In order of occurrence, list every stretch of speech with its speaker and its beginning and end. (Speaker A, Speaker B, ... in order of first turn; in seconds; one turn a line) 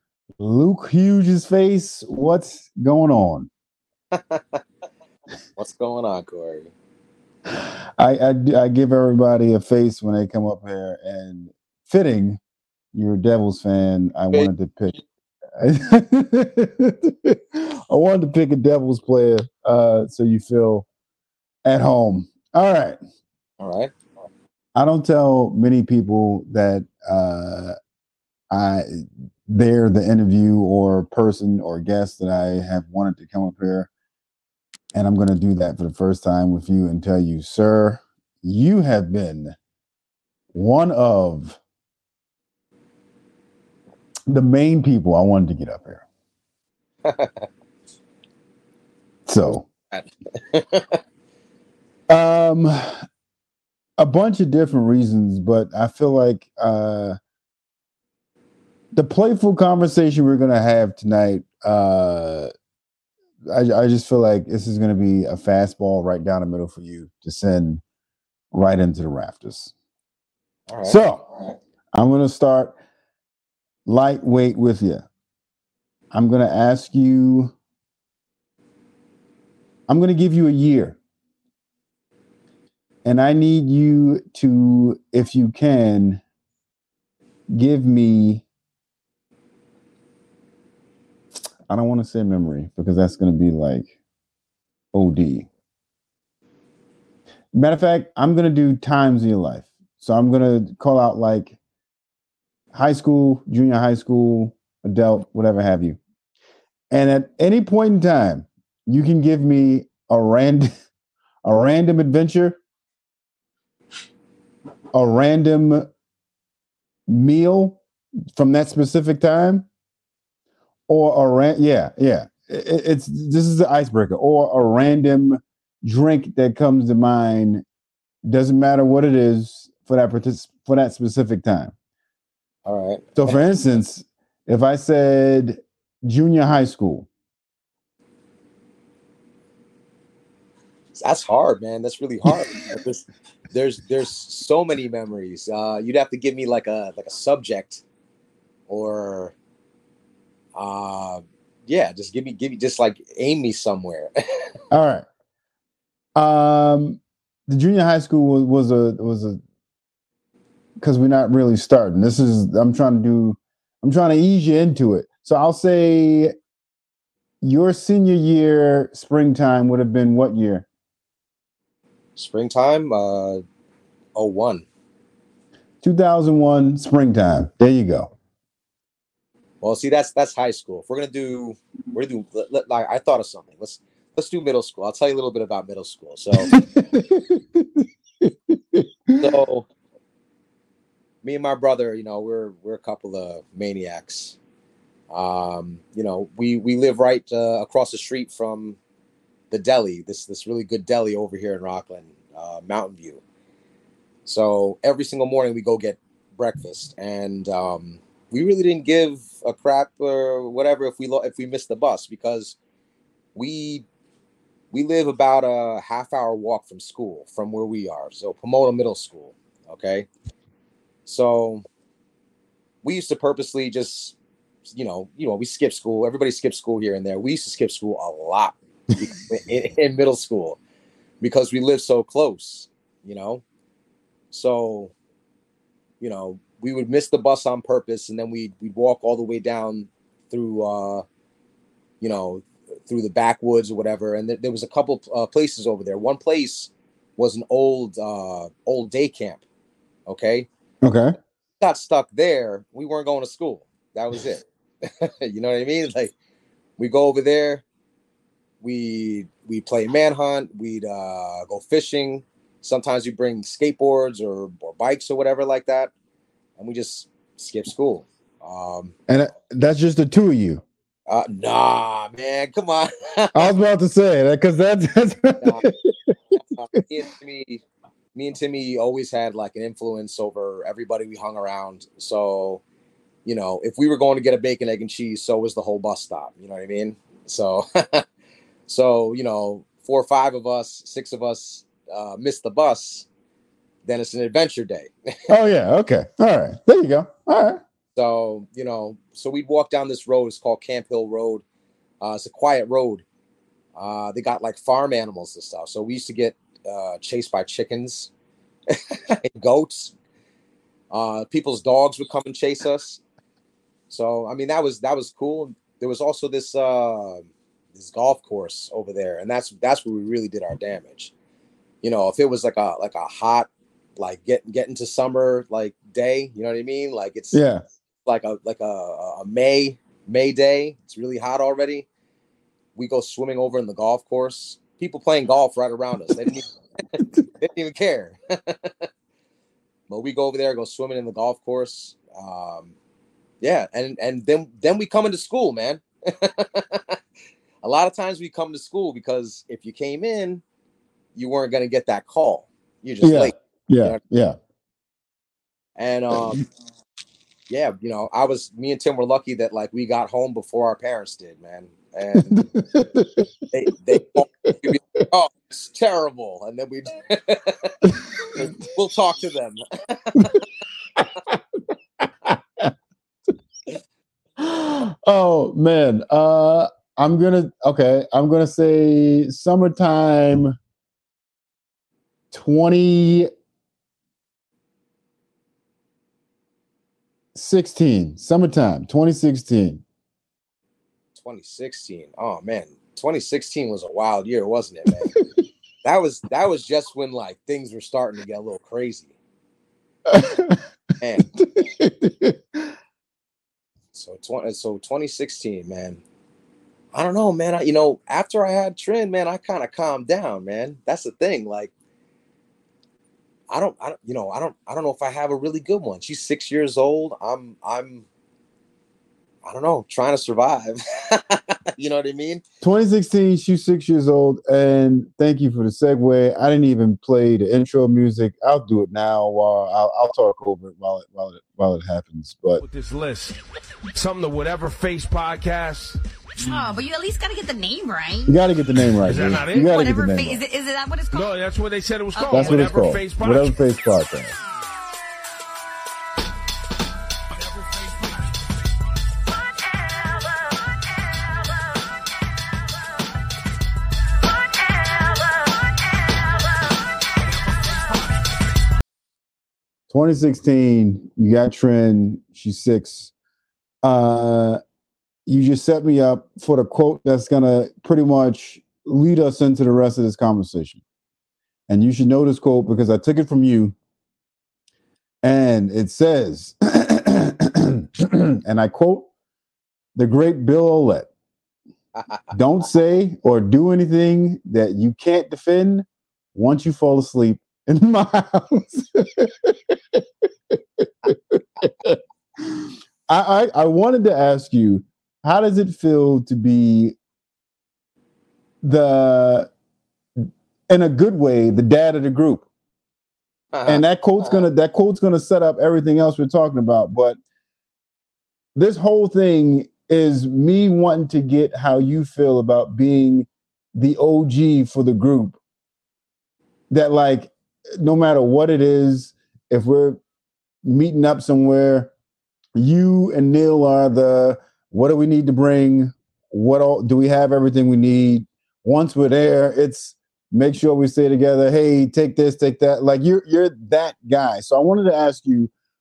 Speaker A: 0.4-3.5
Speaker B: 4.1-4.6
Speaker B: 5.5-6.7
Speaker A: 7.5-12.4
Speaker A: 12.9-14.9
Speaker A: 15.6-20.9
Speaker A: 21.6-23.0
Speaker B: 23.6-23.9
Speaker A: 24.7-27.8
Speaker A: 28.5-33.9
Speaker A: 34.9-39.5
Speaker A: 40.5-41.6
Speaker A: 44.3-46.0
Speaker B: 47.0-47.5
Speaker A: 49.3-49.6
Speaker B: 49.9-51.0
Speaker A: 52.1-53.0
Speaker A: 54.0-57.2
Speaker A: 58.9-62.5
Speaker A: 63.5-67.8
Speaker A: 68.5-69.7
Speaker B: 70.7-71.0
Speaker A: 70.8-71.2
Speaker A: 71.9-72.8
Speaker A: 73.8-75.0
Speaker A: 76.1-77.5
Speaker A: 79.9-81.0
Speaker A: 83.0-86.2
Speaker A: 87.5-88.4
Speaker A: 91.7-93.9
Speaker A: 94.9-95.5
Speaker A: 97.5-101.5
Speaker A: 102.7-106.0
Speaker A: 106.9-110.7
Speaker A: 111.4-112.6
Speaker A: 114.9-115.9
Speaker A: 117.1-117.8
Speaker A: 118.3-119.7
Speaker A: 120.9-127.6
Speaker A: 128.2-131.7
Speaker B: 132.7-133.4
Speaker A: 133.2-137.1
Speaker B: 140.9-147.8
Speaker B: 148.7-149.3
Speaker B: 150.5-154.4
Speaker A: 154.7-155.1
Speaker A: 156.2-159.4
Speaker A: 160.8-166.3
Speaker A: 167.4-170.7
Speaker B: 172.2-173.4
Speaker B: 174.1-174.7
Speaker A: 175.8-178.1
Speaker B: 179.6-186.5
Speaker A: 186.4-189.3
Speaker B: 189.2-189.7
Speaker B: 191.2-194.4
Speaker B: 195.1-198.8
Speaker B: 199.5-203.2
Speaker B: 204.2-212.6
Speaker B: 213.3-213.8
Speaker B: 214.7-220.1
Speaker B: 221.1-221.6
Speaker B: 222.8-224.1
Speaker B: 224.7-230.6
Speaker B: 231.2-233.4
Speaker B: 234.3-234.9
Speaker B: 236.0-241.0
Speaker B: 242.0-249.4
Speaker B: 250.1-250.5
Speaker A: 250.8-251.2
Speaker B: 251.6-256.1
Speaker B: 256.8-257.6
Speaker B: 258.6-265.9
Speaker B: 266.6-268.9
Speaker A: 269.1-270.6
Speaker B: 271.1-273.5
Speaker A: 273.3-276.1
Speaker B: 276.3-277.6
Speaker B: 278.1-282.6
Speaker B: 283.2-288.1
Speaker B: 288.7-293.1
Speaker B: 293.8-295.3
Speaker A: 295.3-297.6
Speaker B: 297.9-301.4
Speaker B: 302.0-303.0
Speaker B: 303.8-308.1
Speaker B: 308.7-309.9
Speaker B: 310.9-313.0
Speaker B: 313.9-321.1
Speaker B: 321.8-327.4
Speaker A: 327.3-327.6
Speaker B: 328.0-331.9
Speaker B: 332.7-338.9
Speaker B: 339.9-342.7
Speaker B: 343.4-347.0
Speaker B: 347.6-350.4
Speaker B: 351.1-354.0
Speaker A: 353.0-354.4
Speaker B: 355.8-356.4
Speaker B: 357.5-362.4
Speaker A: 362.1-363.3
Speaker B: 363.5-370.4
Speaker A: 367.9-368.4
Speaker A: 370.2-370.4
Speaker A: 370.9-372.7
Speaker A: 374.4-380.6
Speaker A: 382.3-383.3
Speaker A: 387.3-389.8
Speaker B: 391.1-395.1
Speaker B: 395.8-399.1
Speaker A: 400.1-400.6
Speaker B: 401.0-401.3
Speaker A: 401.3-402.7
Speaker B: 403.9-406.0
Speaker B: 406.9-411.7
Speaker B: 413.5-418.0
Speaker B: 419.4-422.4
Speaker A: 422.6-432.6
Speaker C: 432.6-433.4
Speaker C: 433.9-436.8
Speaker D: 436.4-438.3
Speaker A: 438.3-440.4
Speaker C: 439.0-439.8
Speaker D: 439.1-441.3
Speaker C: 441.1-443.6
Speaker D: 442.1-442.8
Speaker A: 442.3-444.3
Speaker A: 459.9-463.1
Speaker A: 463.8-464.6
Speaker A: 465.2-470.8
Speaker A: 471.7-473.7
Speaker A: 475.2-479.1
Speaker A: 479.9-481.1
Speaker B: 481.9-482.3
Speaker A: 482.3-497.0
Speaker A: 498.6-499.5
Speaker A: 500.2-502.5
Speaker B: 503.5-504.4
Speaker A: 503.7-507.2
Speaker A: 508.5-515.4
Speaker A: 516.7-520.0
Speaker A: 520.6-521.9
Speaker A: 522.5-535.5